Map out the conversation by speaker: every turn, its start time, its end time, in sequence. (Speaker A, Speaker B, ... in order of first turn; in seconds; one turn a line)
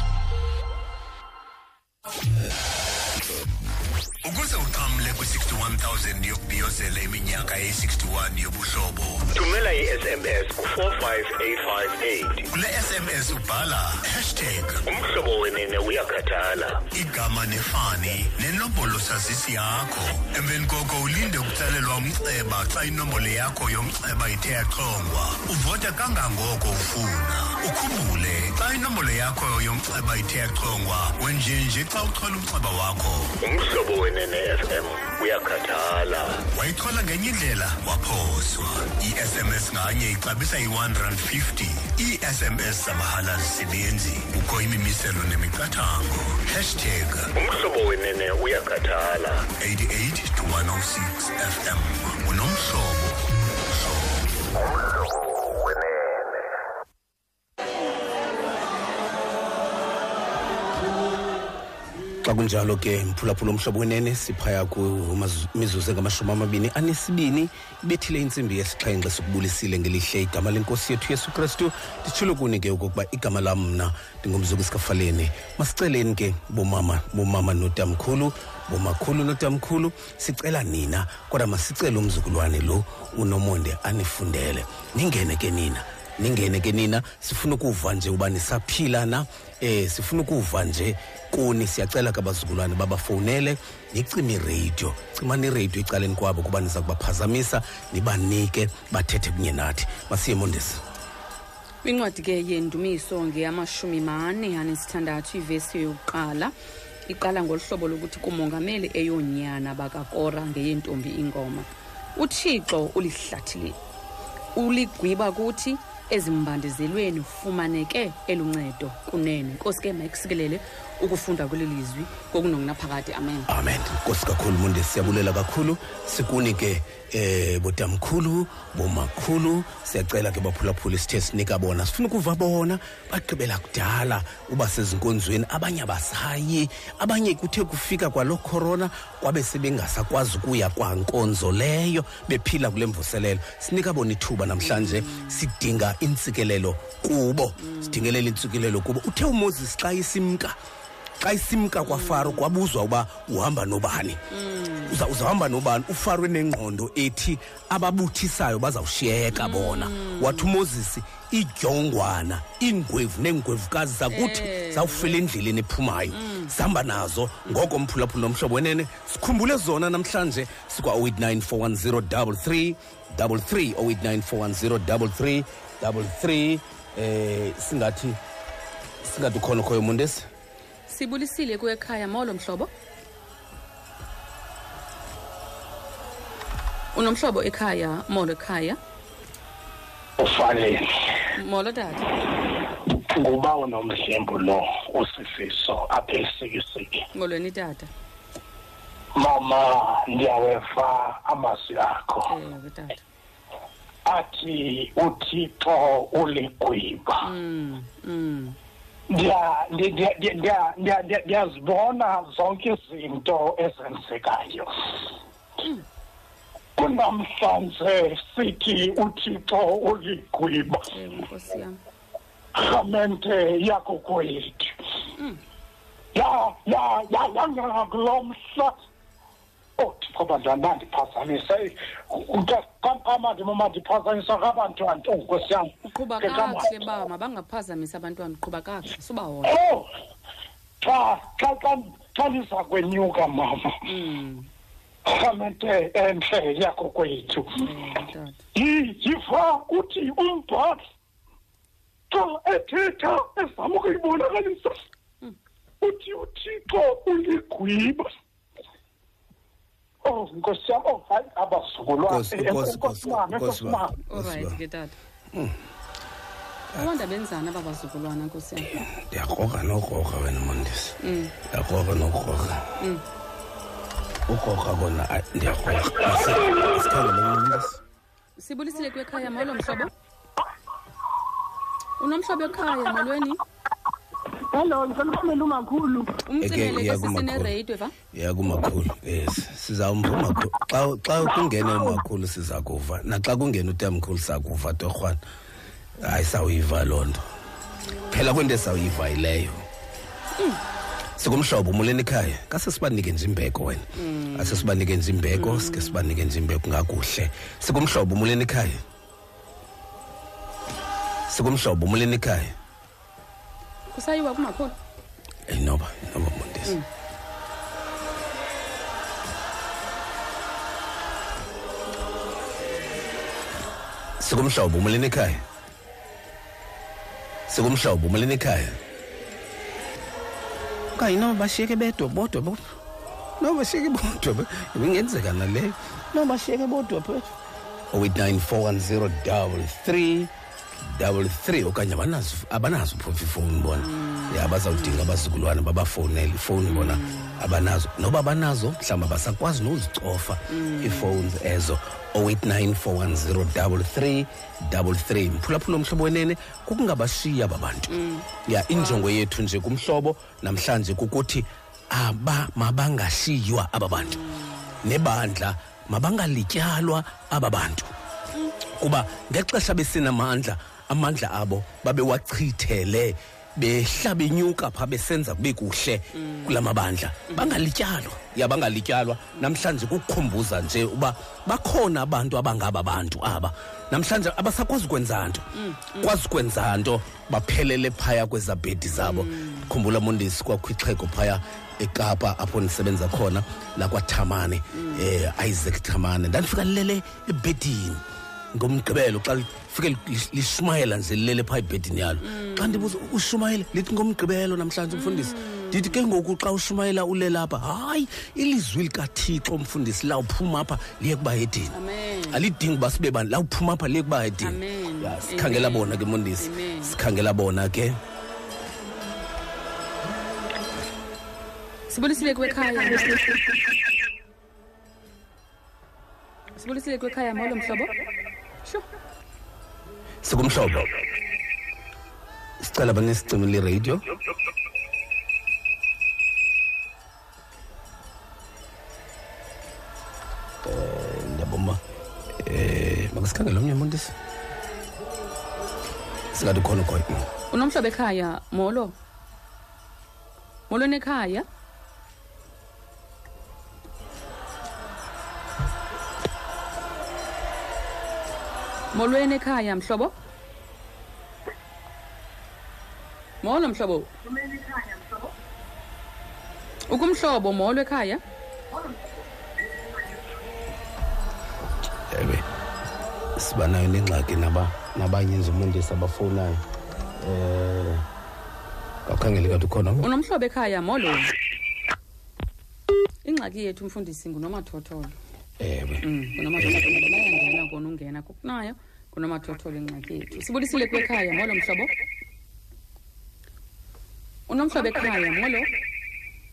Speaker A: 4.2-9.3
Speaker B: 9.3-12.4
Speaker A: 12.5-14.8
Speaker B: 14.9-16.9
Speaker A: 16.9-33.3
Speaker B: 33.4-36.4
Speaker A: 36.4-47.3
Speaker B: 47.4-49.5
Speaker A: 49.6-53.2
Speaker A: 53.7-54.1
Speaker C: 62.2-100.8
Speaker D: 101.8-106.5
Speaker D: 107.1-113.8
Speaker D: 114.5-123.5
Speaker C: 123.5-150.6
Speaker D: 144.6-145.4
Speaker D: 147.6-148.1
Speaker C: 151.2-154.2
Speaker D: 151.8-152.4
Speaker D: 154.3-155.0
Speaker C: 154.8-178.2
Speaker D: 159.3-160.5
Speaker D: 164.1-165.2
Speaker D: 166.1-166.5
Speaker C: 179.0-180.2
Speaker D: 180.9-182.7
Speaker D: 186.9-188.8
Speaker E: 190.2-190.9
Speaker D: 191.3-192.2
Speaker E: 192.5-197.0
Speaker D: 197.1-197.9
Speaker E: 199.2-202.3
Speaker D: 202.3-203.0
Speaker E: 204.1-207.2
Speaker D: 207.2-208.6
Speaker E: 209.1-214.9
Speaker E: 216.8-220.9
Speaker D: 220.9-221.8
Speaker E: 222.6-224.7
Speaker E: 226.1-228.7
Speaker E: 229.8-236.8
Speaker D: 235.8-239.6
Speaker E: 239.4-239.9
Speaker E: 240.8-243.8
Speaker D: 243.8-244.5
Speaker E: 245.1-247.7
Speaker D: 247.6-248.4
Speaker E: 248.5-250.8
Speaker E: 252.1-254.8
Speaker E: 255.8-258.1
Speaker E: 260.0-264.0
Speaker C: 262.1-264.6
Speaker D: 264.1-265.0
Speaker C: 265.3-265.6
Speaker D: 266.8-268.8
Speaker C: 268.7-272.7
Speaker D: 271.0-271.3
Speaker C: 274.3-277.8
Speaker D: 278.4-279.9
Speaker D: 282.0-283.4
Speaker E: 285.3-285.7
Speaker D: 286.2-287.9
Speaker C: 286.4-287.5
Speaker C: 288.1-295.2
Speaker C: 296.0-297.2
Speaker C: 298.1-299.6
Speaker C: 301.2-308.8
Speaker D: 303.9-304.7
Speaker D: 305.3-306.0
Speaker C: 311.3-312.5
Speaker D: 313.9-314.7
Speaker C: 315.5-316.8
Speaker C: 324.2-325.4
Speaker C: 327.5-328.8
Speaker C: 330.9-332.8
Speaker C: 333.4-337.3
Speaker C: 337.9-340.3
Speaker C: 340.8-364.2
Speaker D: 343.8-345.1
Speaker D: 346.7-347.4
Speaker D: 350.5-351.3
Speaker D: 357.9-359.0
Speaker D: 364.0-364.7
Speaker C: 364.8-367.9
Speaker C: 368.8-385.5
Speaker D: 376.1-376.6
Speaker D: 377.3-377.6
Speaker D: 385.5-386.1
Speaker C: 386.0-411.8
Speaker D: 388.9-389.7
Speaker D: 394.7-395.1
Speaker D: 402.2-402.9
Speaker D: 404.9-406.0
Speaker D: 411.7-412.4
Speaker C: 412.3-418.0
Speaker D: 414.4-417.0
Speaker D: 421.9-423.3
Speaker D: 426.6-427.9
Speaker C: 430.2-430.9
Speaker C: 432.6-434.0
Speaker C: 440.6-441.8
Speaker C: 442.4-444.1
Speaker C: 446.3-447.2
Speaker D: 447.5-448.9
Speaker D: 450.7-451.4
Speaker D: 458.9-460.1
Speaker D: 463.4-464.1
Speaker D: 466.9-468.2
Speaker C: 472.1-472.5
Speaker C: 473.4-476.6
Speaker C: 477.2-478.0
Speaker C: 479.1-480.1
Speaker D: 480.0-481.3
Speaker D: 483.2-485.1
Speaker C: 485.6-486.9
Speaker D: 486.0-491.9
Speaker D: 494.5-495.7